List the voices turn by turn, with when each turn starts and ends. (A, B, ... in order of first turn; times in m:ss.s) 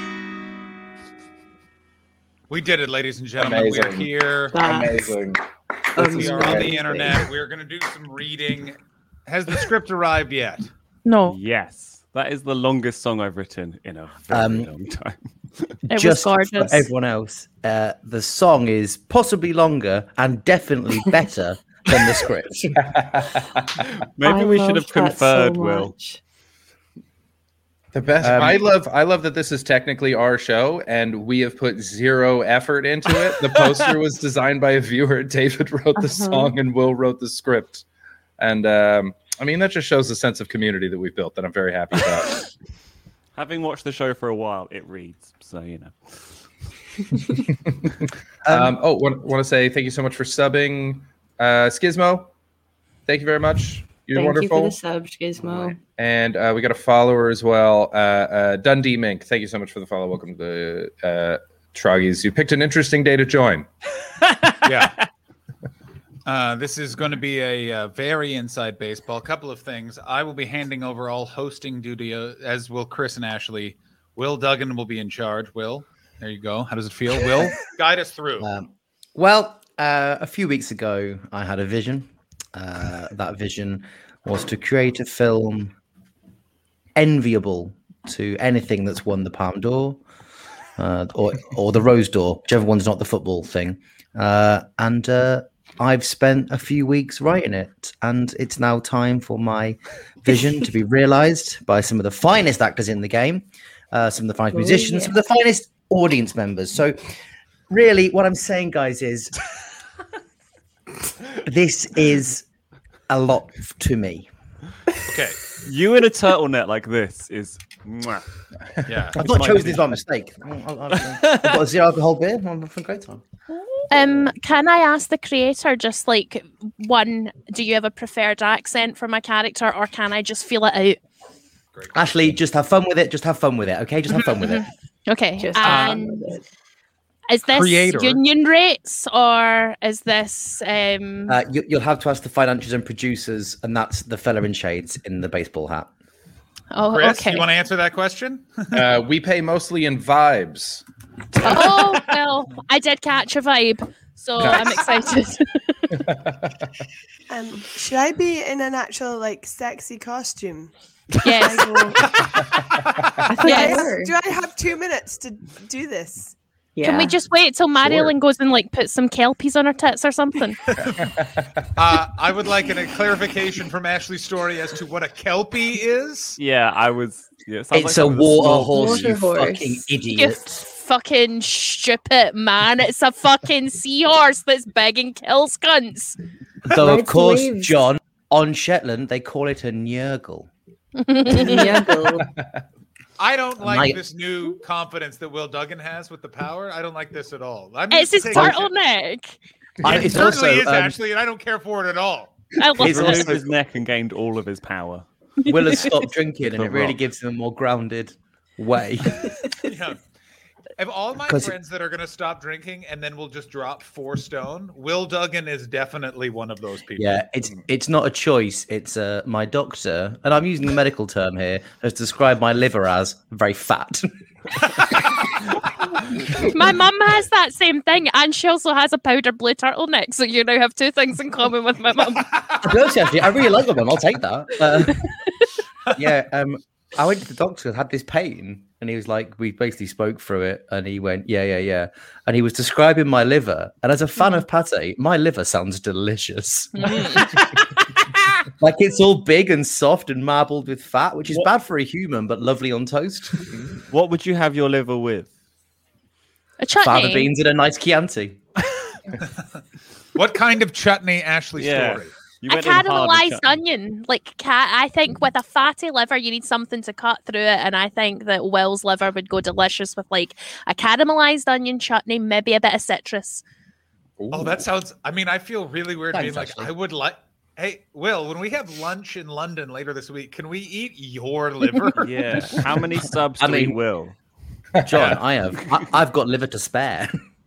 0:02.5-0:04.5 A
0:03.4-0:05.4 B
0:04.5-0:05.2 C
0:06.0-0:07.0 C
0:06.0-0:07.1 B
0:06.0-0:10.7 A
0:11.0-0:11.4 D
0:11.3-0:15.7 E
0:14.3-0:14.7 F
0:15.9-0:22.7 F
0:15.9-0:16.9 D
0:22.7-0:23.4 B
0:24.0-0:25.9 E
0:24.2-0:26.2 C
0:27.9-0:37.8 B
0:28.2-0:28.6 F
0:36.0-0:36.6 C
0:38.4-0:42.4 B
0:43.3-0:46.2 E
0:48.4-0:48.8 F
0:48.5-0:52.3 B
0:53.0-0:54.8 B
0:54.1-0:55.8 C
0:55.5-1:03.7 B
1:04.6-1:04.9 A
1:06.2-1:18.5 A
1:18.4-1:25.7 F
1:27.0-1:30.0 F
1:30.8-1:47.0 F
1:44.5-1:45.1 C
1:47.7-1:49.3 F
1:51.4-1:52.4 F
1:53.1-1:54.3 F
1:55.1-1:55.4 A
1:55.6-1:58.2 E
1:58.9-1:59.2 A
1:59.2-2:03.2 F
1:59.2-1:59.9 E
2:01.0-2:01.6 E
2:03.9-2:11.0 D
2:11.7-2:12.1 A
2:11.9-2:14.6 F
2:14.3-2:16.2 D
2:15.4-2:16.4 C
2:15.6-2:16.0 A
2:17.3-2:21.4 D
2:17.5-2:18.2 A
2:21.3-2:25.9 F
2:26.7-2:27.5 D
2:26.9-2:28.9 A
2:28.7-2:30.8 B
2:31.4-2:35.9 D
2:34.4-2:35.1 G
2:36.1-2:36.3 B
2:37.3-2:42.5 G
2:41.2-2:41.9 D
2:43.3-2:44.1 C
2:43.4-2:46.3 G
2:43.4-2:43.9 D
2:46.8-2:47.1 C
2:46.8-2:50.6 D
2:47.8-2:48.1 B
2:51.8-2:56.4 A
2:56.4-2:58.9 E
2:57.7-3:00.6 F
2:58.4-2:59.9 C
3:00.1-3:06.2 D
3:06.6-3:10.5 F
3:06.7-3:07.8 C
3:11.0-3:11.9 D
3:11.3-3:12.3 C
3:13.2-3:18.7 A
3:13.6-3:14.0 F
3:17.9-3:19.3 D
3:18.3-3:18.6 F
3:19.8-3:21.0 F
3:19.8-3:22.3 A
3:22.6-3:23.4 D
3:22.8-3:23.4 F
3:22.8-3:25.0 E
3:25.4-3:26.0 D
3:25.4-3:29.4 F
3:26.4-3:27.0 E
3:29.6-3:30.0 A
3:30.8-3:37.2 A
3:31.2-3:31.5 F
3:37.0-3:44.1 F
3:46.3-3:52.4 D
3:52.3-3:52.6 A
3:52.6-3:55.1 F
3:55.9-4:08.0 F
4:06.8-4:07.3 D
4:08.6-4:13.4 F
4:13.9-4:15.3 E
4:16.6-4:17.3 D
4:16.8-4:18.4 F
4:20.1-4:22.1 A
4:21.6-4:23.4 E
4:22.5-4:33.4 D
4:34.2-4:34.6 B
4:34.3-4:42.0 A
4:36.1-4:36.7 F
4:42.0-4:44.2 E
4:43.4-4:43.8 F
4:44.8-4:47.1 F
4:44.9-4:45.2 A